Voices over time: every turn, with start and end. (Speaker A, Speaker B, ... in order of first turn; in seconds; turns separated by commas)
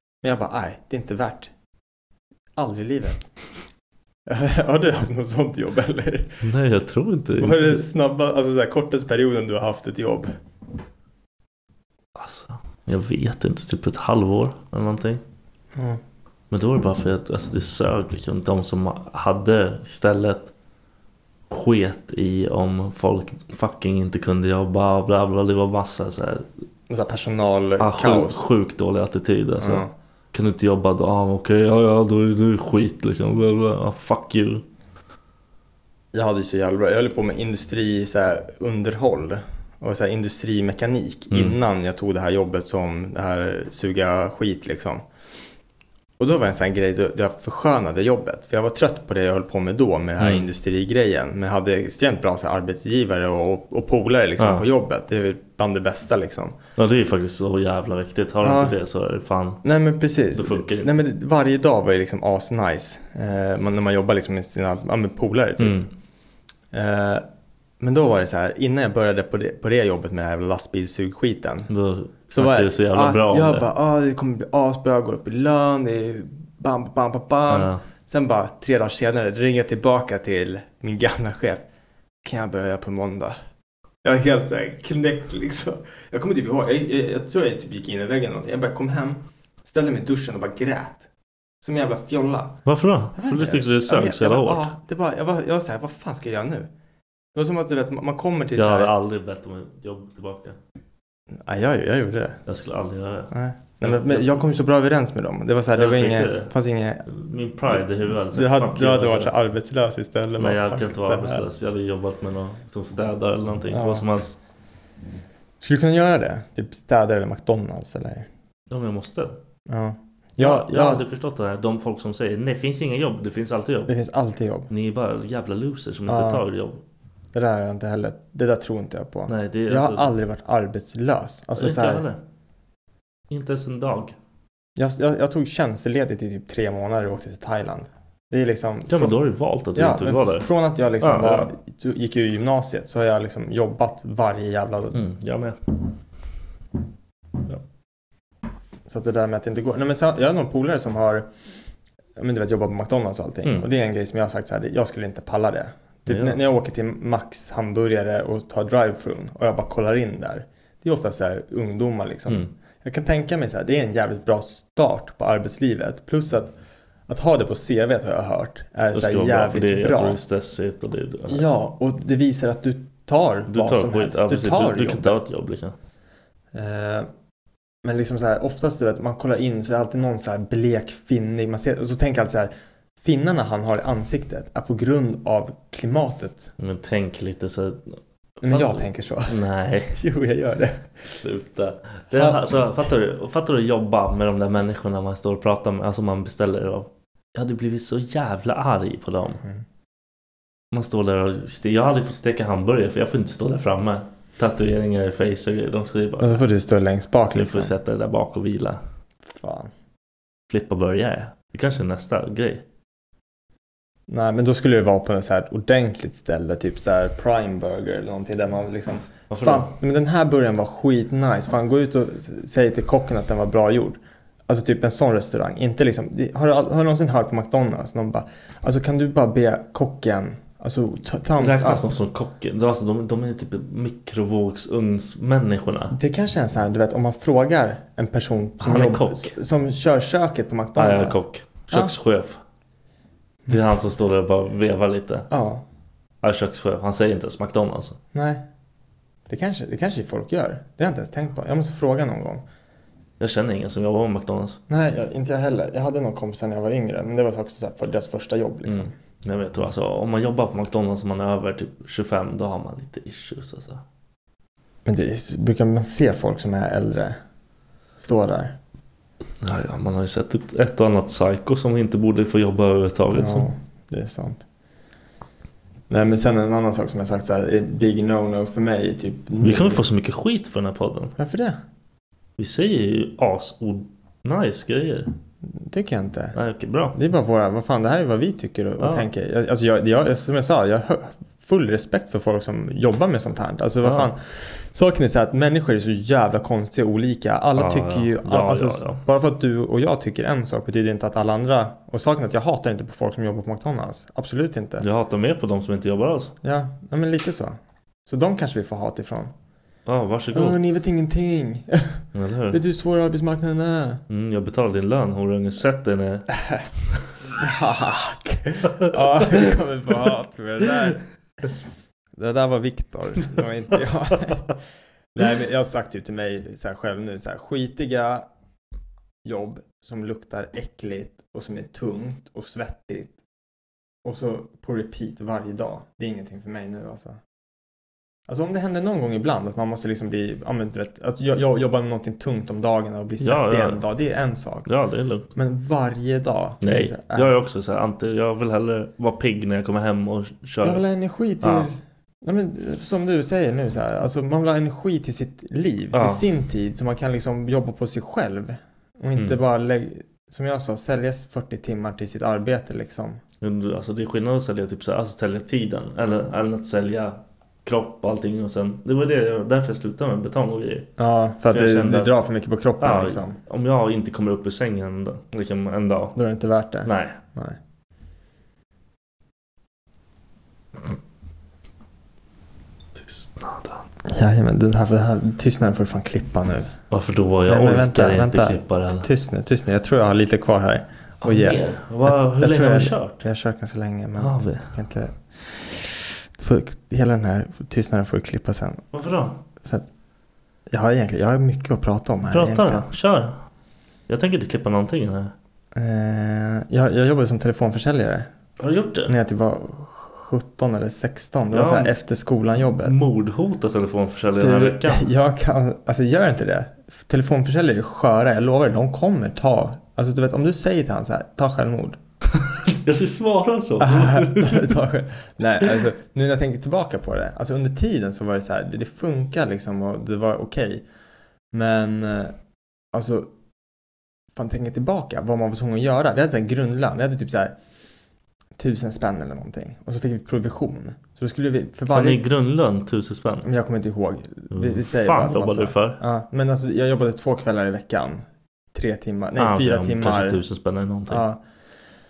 Speaker A: 0.2-1.5, Speaker A: 2.6-3.2, Speaker A: 4.3-6.4, Speaker B: 6.4-7.9, Speaker A: 7.4-10.3, Speaker B: 12.1-15.2, Speaker A: 15.8-16.0, Speaker B: 16.5-20.5, Speaker B: 21.5-26.5, Speaker A: 26.9-28.4, Speaker B: 27.8-34.6, Speaker A: 29.6-29.9, Speaker A: 36.1-45.0, Speaker B: 41.3-41.6, Speaker A: 46.2-56.5, Speaker B: 50.2-50.5, Speaker B: 54.4-54.7, Speaker B: 56.8-59.6, Speaker A: 58.4-58.7, Speaker A: 59.6-65.9, Speaker B: 60.3-60.9, Speaker B: 65.6-65.9, Speaker A: 66.7-67.2, Speaker A: 67.8-71.7, Speaker B: 71.7-73.7, Speaker A: 72.3-81.6, Speaker B: 77.5-77.8, Speaker A: 82.2-83.4, Speaker A: 84.0-91.1, Speaker A: 91.6-92.6, Speaker B: 92.7-94.7, Speaker A: 93.2-96.7, Speaker A: 97.3-98.9, Speaker B: 98.5-100.6, Speaker A: 101.4-102.4, Speaker B: 102.5-104.4, Speaker A: 103.3-107.0, Speaker B: 105.7-106.5, Speaker B: 107.1-109.3, Speaker A: 107.7-111.4, Speaker B: 110.4-114.4, Speaker A: 113.7-114.0, Speaker A: 115.6-118.3, Speaker B: 118.7-119.4, Speaker A: 119.7-121.0, Speaker B: 120.4-123.9, Speaker A: 123.9-124.7, Speaker B: 124.7-126.8, Speaker A: 126.1-126.4, Speaker A: 127.3-132.0, Speaker B: 129.3-130.1, Speaker B: 131.6-132.2, Speaker B: 133.3-134.2, Speaker A: 134.8-139.2, Speaker B: 138.9-140.5, Speaker A: 139.7-145.0, Speaker B: 141.0-141.5, Speaker B: 144.9-145.8, Speaker A: 148.9-151.3, Speaker A: 152.2-166.5, Speaker B: 156.1-156.4, Speaker A: 167.1-170.2, Speaker B: 168.9-171.4, Speaker A: 171.3-175.2, Speaker B: 173.5-175.7, Speaker A: 176.5-177.1, Speaker A: 177.8-186.5, Speaker B: 186.6-190.0, Speaker A: 188.4-189.4, Speaker A: 189.9-190.9, Speaker B: 191.0-199.4, Speaker A: 192.1-192.6, Speaker A: 199.3-199.6, Speaker B: 200.7-206.4, Speaker A: 206.2-207.7, Speaker B: 207.3-208.8, Speaker A: 209.3-209.7, Speaker B: 210.5-212.6, Speaker A: 214.1-231.9, Speaker B: 219.3-219.7, Speaker B: 231.4-235.9, Speaker A: 235.9-241.9, Speaker B: 238.6-239.4, Speaker B: 240.8-242.4, Speaker B: 243.5-245.3, Speaker A: 245.3-245.6, Speaker B: 246.2-248.0, Speaker A: 248.1-248.4, Speaker A: 249.3-252.4, Speaker B: 253.2-254.6, Speaker A: 254.7-258.9, Speaker B: 258.7-263.8, Speaker A: 264.9-267.2, Speaker A: 268.0-268.6, Speaker B: 269.4-273.5, Speaker A: 273.1-274.4, Speaker A: 275.9-279.8, Speaker B: 279.4-281.1, Speaker A: 281.2-281.6, Speaker B: 282.4-285.1, Speaker A: 285.6-286.4, Speaker B: 286.3-286.9, Speaker A: 286.9-304.8, Speaker B: 288.8-289.1, Speaker B: 293.8-294.1, Speaker B: 297.6-299.0, Speaker B: 304.8-306.3, Speaker A: 306.4-309.3, Speaker B: 309.9-310.6, Speaker A: 310.3-314.0, Speaker B: 312.1-312.6, Speaker B: 314.1-316.3, Speaker A: 317.4-321.0, Speaker A: 322.2-324.5, Speaker A: 325.1-328.2, Speaker A: 329.2-333.1, Speaker A: 334.1-337.2, Speaker A: 338.3-344.7, Speaker B: 343.2-343.8, Speaker B: 344.6-345.3, Speaker A: 345.3-347.3, Speaker B: 346.6-350.8, Speaker A: 350.6-363.2, Speaker B: 351.4-351.7, Speaker B: 355.9-356.2, Speaker B: 363.4-370.9, Speaker A: 371.0-373.4, Speaker B: 371.5-372.2, Speaker B: 372.8-376.2, Speaker A: 376.1-377.6, Speaker B: 376.8-377.1, Speaker B: 382.9-383.8, Speaker A: 384.1-386.8, Speaker B: 386.9-389.1, Speaker A: 387.5-398.8, Speaker B: 391.2-393.2, Speaker B: 394.2-394.7, Speaker B: 398.9-399.4, Speaker A: 400.7-402.9, Speaker B: 402.3-403.4, Speaker B: 404.1-405.3, Speaker A: 405.7-408.3, Speaker B: 408.6-409.1, Speaker A: 409.1-412.9, Speaker B: 411.5-411.9, Speaker B: 412.8-415.1, Speaker A: 414.4-422.0, Speaker B: 422.4-424.8, Speaker A: 423.8-430.8, Speaker A: 431.5-432.3, Speaker A: 432.9-433.3, Speaker A: 434.3-437.6, Speaker A: 438.6-442.2, Speaker B: 441.9-443.5, Speaker A: 443.4-450.4, Speaker B: 444.5-446.0, Speaker B: 449.4-451.3, Speaker A: 451.1-451.4